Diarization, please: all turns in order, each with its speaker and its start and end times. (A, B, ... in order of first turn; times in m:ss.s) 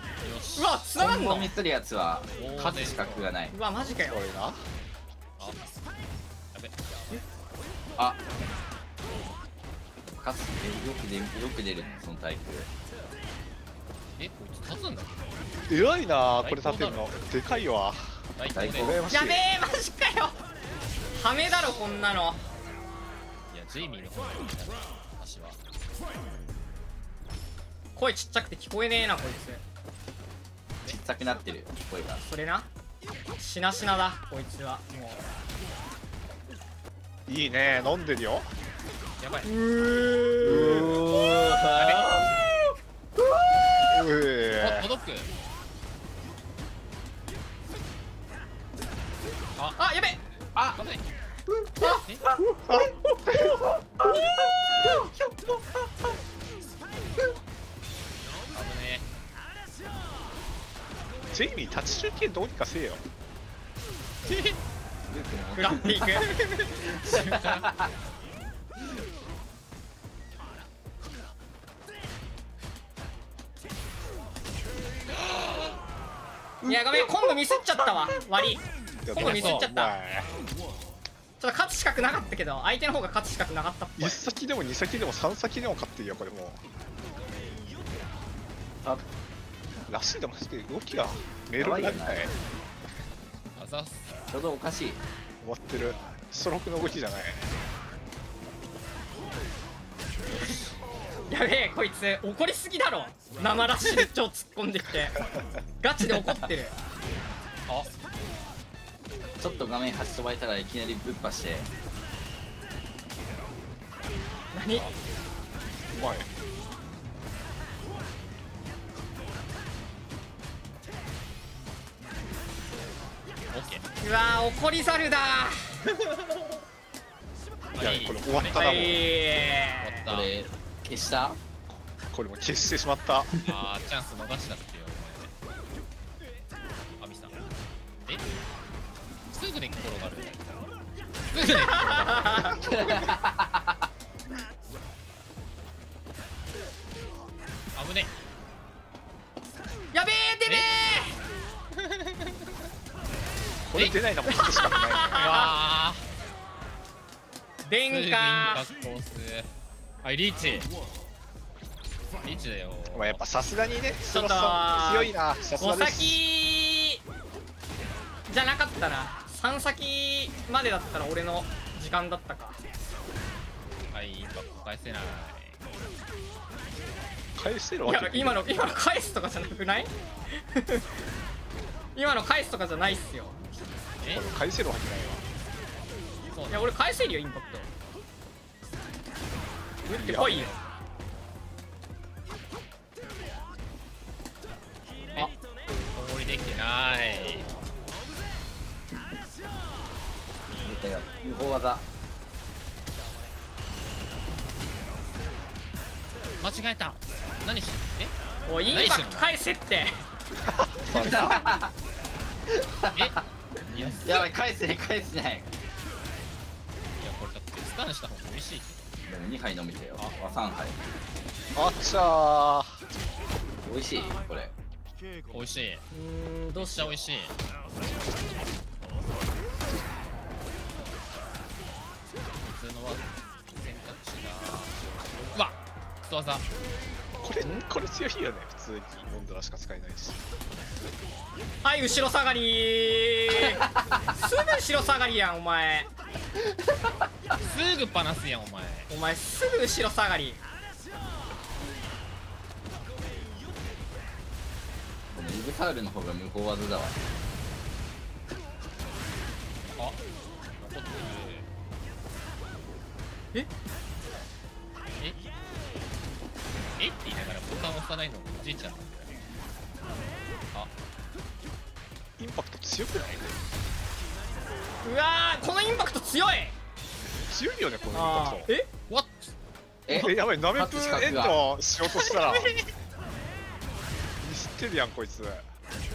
0:00.2-0:00.9 A
0:00.6-0:01.5 B
0:00.9-0:03.6 C
0:02.4-0:03.3 A
0:03.5-0:04.2 B
0:03.8-0:04.6 D
0:05.4-0:05.7 A
0:06.5-0:07.2 A
0:10.1-0:12.7 C
0:14.2-0:15.3 A
0:15.7-0:19.4 D
0:16.3-0:17.1 A
0:18.4-0:19.0 A
0:18.5-0:19.0 C
0:19.1-0:20.4 B
0:21.1-0:22.4 B
0:23.5-0:25.6 A
0:28.0-0:29.6 B
0:30.8-0:32.2 C
0:32.2-0:32.7 B
0:33.4-0:35.2 B
0:37.3-0:38.5 D
0:39.2-0:39.5 A
0:39.4-0:40.9 B
0:40.4-0:42.5 C
0:40.4-0:41.0 D
0:41.7-0:42.1 A
0:43.9-0:44.9 D
0:44.5-0:45.3 A
0:49.8-0:50.2 B
0:50.6-0:50.8 C
0:50.7-0:51.0 A
0:51.5-0:56.1 C
0:51.9-0:52.3 A
0:52.6-0:53.6 D
0:58.5-0:59.1 A
1:01.3-1:03.0 D
1:04.2-1:04.6 A
1:05.1-1:06.3 C
1:05.6-1:06.3 B
1:06.0-1:07.8 A
1:07.0-1:07.6 C
1:15.3-1:15.6 A
1:16.6-1:20.0 B
1:19.0-1:20.3 D
1:19.2-1:19.7 A
1:21.4-1:24.2 B
1:24.0-1:26.6 D
1:29.9-1:32.3 D
1:31.6-1:32.3 C
1:33.6-1:34.1 A
1:34.3-1:35.0 C
1:35.4-1:37.5 D
1:40.3-1:40.7 A
1:41.3-1:45.2 B
1:45.8-1:46.8 B
1:49.4-1:51.7 C
1:54.5-1:54.9 B
1:55.9-1:56.3 D
2:03.5-2:03.8 A
2:04.0-2:05.7 B
2:07.8-2:08.6 A
2:07.8-2:09.0 D
2:08.5-2:10.1 B
2:09.8-2:10.4 A
2:10.1-2:11.4 C
2:12.1-2:13.4 D
2:13.4-2:15.3 A
2:17.0-2:17.4 A
2:19.3-2:20.4 A
2:21.3-2:23.0 A
2:21.4-2:22.6 B
2:22.6-2:23.6 C
2:27.8-2:28.1 A
2:29.9-2:31.2 B
2:31.8-2:32.4 A
2:33.7-2:35.5 D
2:33.8-2:34.0 A
2:34.3-2:35.5 B
2:35.2-2:36.0 A
2:37.6-2:38.7 B
2:37.9-2:39.5 A
2:40.0-2:40.7 A
2:42.2-2:43.2 A
2:42.9-2:46.2 D
2:44.0-2:47.0 B
2:48.3-2:52.6 B
2:53.9-2:55.6 A
2:57.4-2:58.7 D
2:57.8-3:00.9 B
3:02.0-3:03.4 B
3:04.0-3:04.3 A
3:04.1-3:05.2 D
3:06.3-3:06.7 A
3:06.5-3:07.7 B
3:09.9-3:10.6 B
3:09.9-3:10.6 D
3:15.9-3:17.5 A
3:20.6-3:21.8 C
3:26.4-3:28.2 A
3:28.5-3:30.0 B
3:28.7-3:29.4 A
3:30.5-3:31.4 D
3:30.9-3:31.7 C
3:32.5-3:33.1 C
3:32.9-3:34.3 A
3:33.8-3:35.5 C
3:37.0-3:38.9 A
3:39.0-3:40.8 C
3:40.0-3:40.2 A
3:41.5-3:42.8 D
3:43.6-3:44.5 C
3:45.3-3:45.9 A
3:45.9-3:47.0 B
3:46.6-3:47.4 A
3:52.4-3:54.8 A
3:55.3-3:56.4 A
3:57.2-4:00.2 D
4:01.6-4:05.9 B
4:07.4-4:08.9 A
4:08.9-4:10.4 B
4:15.1-4:17.0 C
4:20.6-4:21.5 A
4:26.8-4:29.1 A
4:32.2-4:33.4 D
4:34.8-4:36.6 B
4:37.0-4:38.5 D
4:37.9-4:38.7 B
4:38.9-4:39.3 A
4:39.9-4:41.4 C
4:39.9-4:42.5 D
4:41.9-4:42.7 A
4:44.2-4:45.5 D